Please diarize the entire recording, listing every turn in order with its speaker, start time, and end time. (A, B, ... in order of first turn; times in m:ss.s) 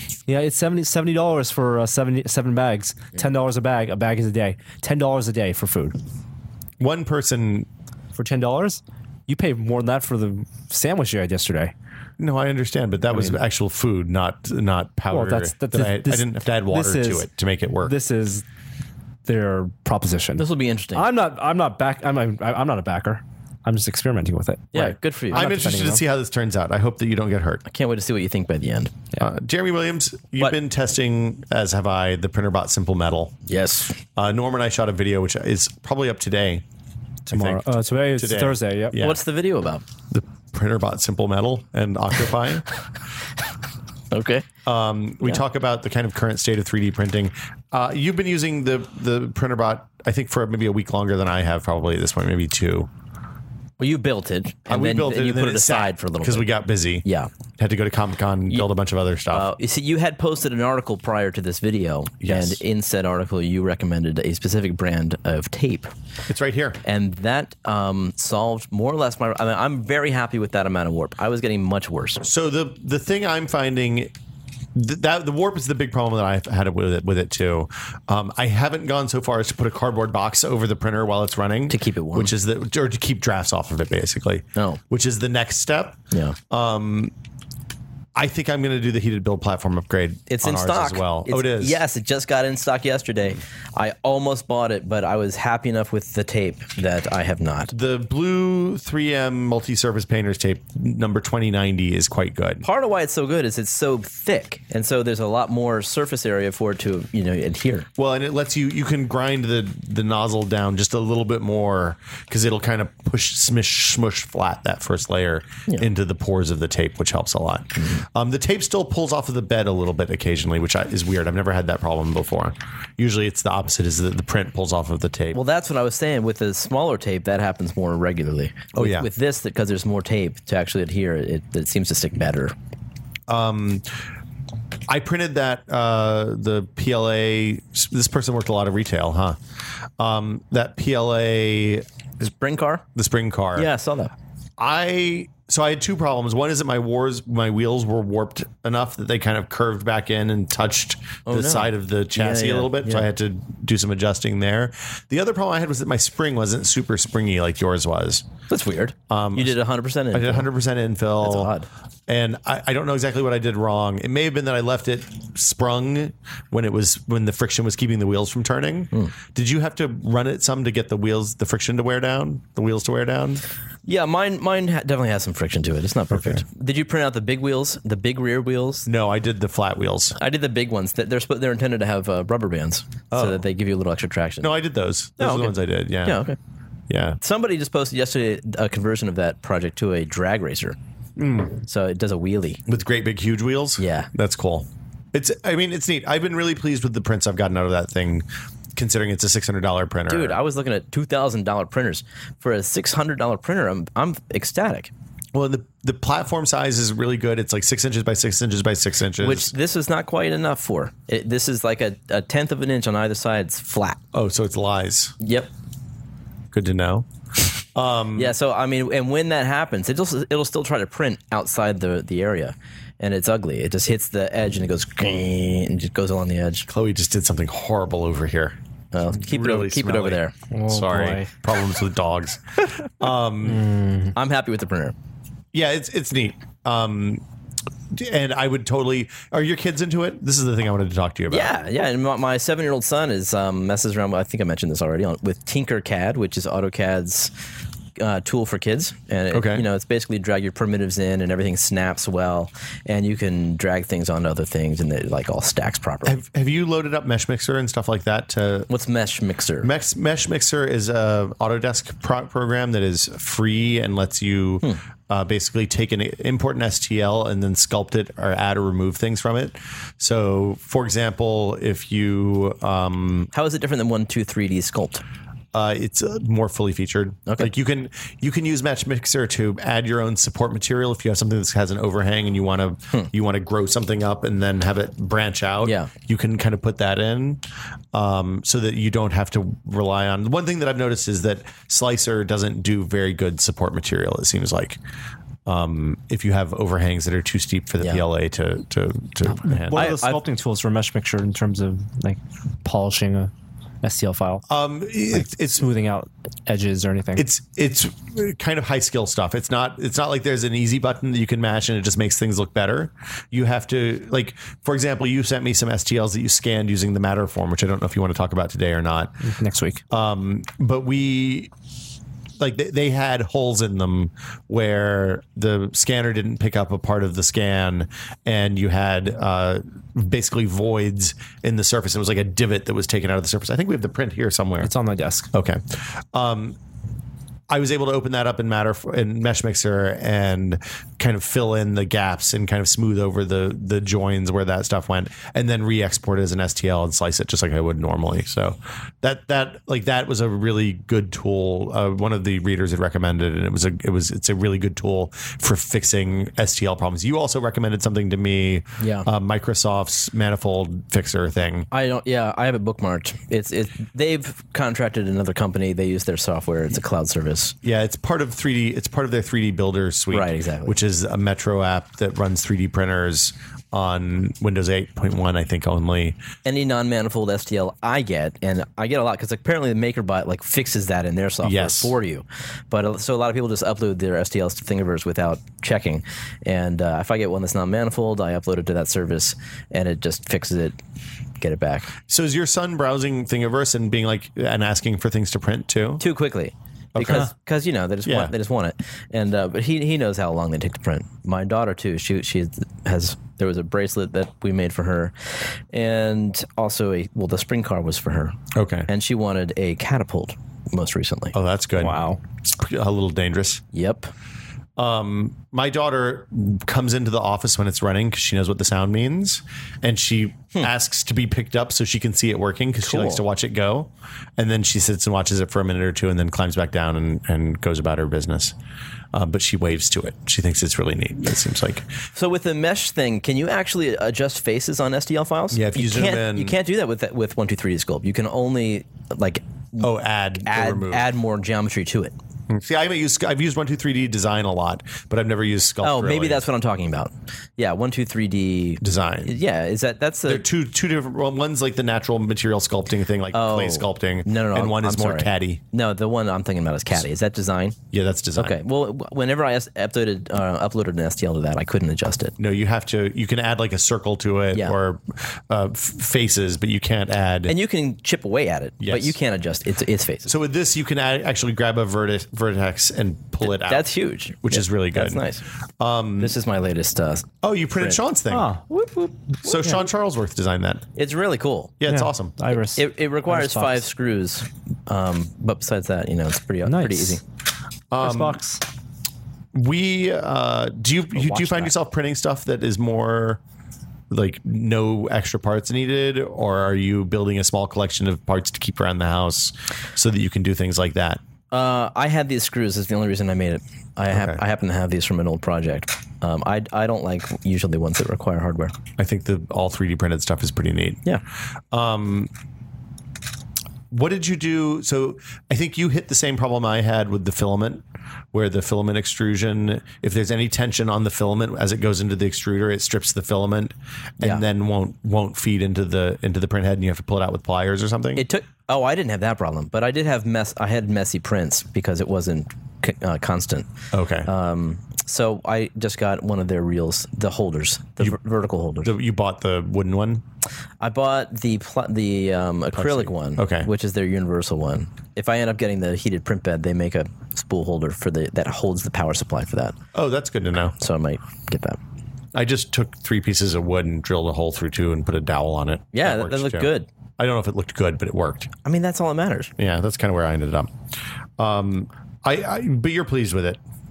0:00.3-0:06.0 A
0:06.8-0:07.7 B
0:08.2-0:11.7 A
0:12.2-0:17.9 B
0:13.1-0:13.4 A
0:15.1-0:18.4 A
0:19.3-0:26.0 A
0:20.4-0:21.1 C
0:24.7-0:25.5 C
0:25.3-0:27.6 B
0:27.7-0:29.0 C
0:29.2-0:33.3 B
0:33.5-0:34.0 C
0:34.2-0:36.6 B
0:37.3-0:39.0 A
0:37.3-0:39.2 B
0:39.0-0:39.8 C
0:40.1-0:42.7 B
0:44.1-0:44.5 C
0:44.6-0:52.9 B
0:53.8-0:56.5 C
0:54.7-0:57.0 B
0:57.0-0:57.3 C
0:57.6-0:59.5 B
0:59.3-1:05.9 C
1:02.2-1:02.6 B
1:06.3-1:06.8 B
1:06.8-1:12.2 C
1:12.2-1:14.1 B
1:14.8-1:26.0 B
1:21.7-1:22.3 C
1:24.6-1:24.8 C
1:26.1-1:26.4 C
1:26.5-1:27.1 B
1:28.2-1:31.8 B
1:30.3-1:37.7 C
1:37.7-1:42.7 B
1:42.6-1:47.9 C
1:48.0-2:05.4 B
2:05.3-2:12.5 C
2:08.7-2:09.1 B
2:13.3-2:13.9 B
2:14.9-2:19.4 B
2:20.0-2:21.8 B
2:22.2-2:22.9 C
2:23.0-2:23.7 B
2:23.6-2:24.1 C
2:24.6-2:38.3 B
2:31.3-2:33.0 C
2:38.5-2:40.5 C
2:39.1-2:39.6 B
2:40.1-2:41.5 B
2:41.2-2:41.7 C
2:42.1-2:53.4 B
2:53.8-2:58.9 C
2:56.1-2:56.4 B
2:58.9-3:00.2 B
3:00.2-3:04.5 C
3:03.1-3:03.4 B
3:04.4-3:06.2 B
3:05.2-3:06.4 C
3:06.9-3:07.2 B
3:07.2-3:10.8 C
3:11.2-3:11.6 B
3:11.6-3:12.6 C
3:12.7-3:20.4 B
3:13.8-3:14.1 C
3:20.1-3:24.9 C
3:25.3-3:29.5 B
3:29.2-3:34.0 C
3:34.1-3:35.2 B
3:35.2-3:35.5 C
3:36.5-3:37.1 B
3:37.8-3:38.4 B
3:38.2-3:46.7 C
3:46.7-3:48.6 B
3:48.9-3:50.4 C
3:49.1-3:53.7 B
3:50.5-3:51.3 A
3:53.4-3:54.2 A
3:54.1-3:55.0 C
3:55.5-3:57.2 B
3:57.9-4:01.5 B
4:01.3-4:07.3 C
4:08.0-4:16.2 C
4:09.3-4:09.7 B
4:16.0-4:18.7 B
4:18.7-4:19.7 C
4:19.6-4:33.3 B
4:33.3-4:35.0 C
4:35.5-4:54.8 B
4:45.6-4:45.9 C
4:55.5-5:00.0 B
4:59.3-5:04.4 A
4:59.7-5:00.2 C
5:04.5-5:05.7 B
5:05.1-5:07.3 A
5:07.2-5:19.2 B
5:19.2-5:19.8 A
5:19.9-5:21.5 B
5:22.4-5:34.7 B
5:34.6-5:35.3 A
5:35.3-5:36.6 B
5:37.5-6:01.7 B
5:58.8-5:59.1 C
6:01.7-6:07.6 C
6:07.6-6:16.2 B
6:10.1-6:10.8 C
6:16.4-6:30.8 C
6:21.4-6:22.0 B
6:31.4-6:31.9 C
6:32.1-6:36.0 B
6:36.0-6:45.2 C
6:37.0-6:37.3 B
6:38.0-6:38.3 B
6:45.7-6:48.4 C
6:48.5-6:48.9 B
6:48.9-6:51.4 C
6:51.3-6:53.6 B
6:51.8-6:52.2 A
6:53.7-6:54.1 C
6:54.8-7:08.6 B
7:02.8-7:03.2 C
7:09.1-7:11.9 B
7:12.2-7:22.2 C
7:15.5-7:16.6 B
7:19.8-7:21.1 B
7:22.5-7:26.4 B
7:25.8-7:30.4 C
7:28.8-7:29.4 B
7:30.3-7:35.6 B
7:33.3-7:37.8 C
7:37.9-7:38.6 B
7:38.4-7:42.4 C
7:42.4-7:47.6 B
7:47.5-7:50.3 C
7:48.8-7:49.2 B
7:50.3-7:53.9 B
7:53.4-7:55.4 C
7:54.4-7:55.2 B
7:55.8-7:56.4 B
7:56.2-7:58.0 C
7:57.4-7:58.5 B
7:58.3-7:58.7 A
7:58.7-7:59.6 C
7:59.4-8:00.8 B
8:01.0-8:01.8 C
8:01.8-8:02.4 B
8:01.9-8:03.8 A
8:02.8-8:07.2 C
8:06.6-8:07.2 A
8:07.9-8:08.4 B
8:08.0-8:08.6 A
8:09.5-8:13.4 B
8:11.2-8:11.7 A
8:14.1-8:21.2 B
8:21.5-8:28.8 C
8:24.1-8:24.4 B
8:29.0-8:31.0 B
8:31.7-8:32.3 B
8:33.9-8:48.3 B
8:48.2-8:53.7 C
8:53.9-8:54.3 B
8:54.3-8:58.9 C
8:58.8-9:00.2 B
9:00.8-9:09.8 C
9:02.8-9:03.7 B
9:09.9-9:10.8 B
9:10.8-9:11.8 C
9:12.3-9:18.5 B
9:15.9-9:16.9 C
9:18.6-9:19.5 C
9:19.6-9:20.7 B
9:21.4-9:23.6 B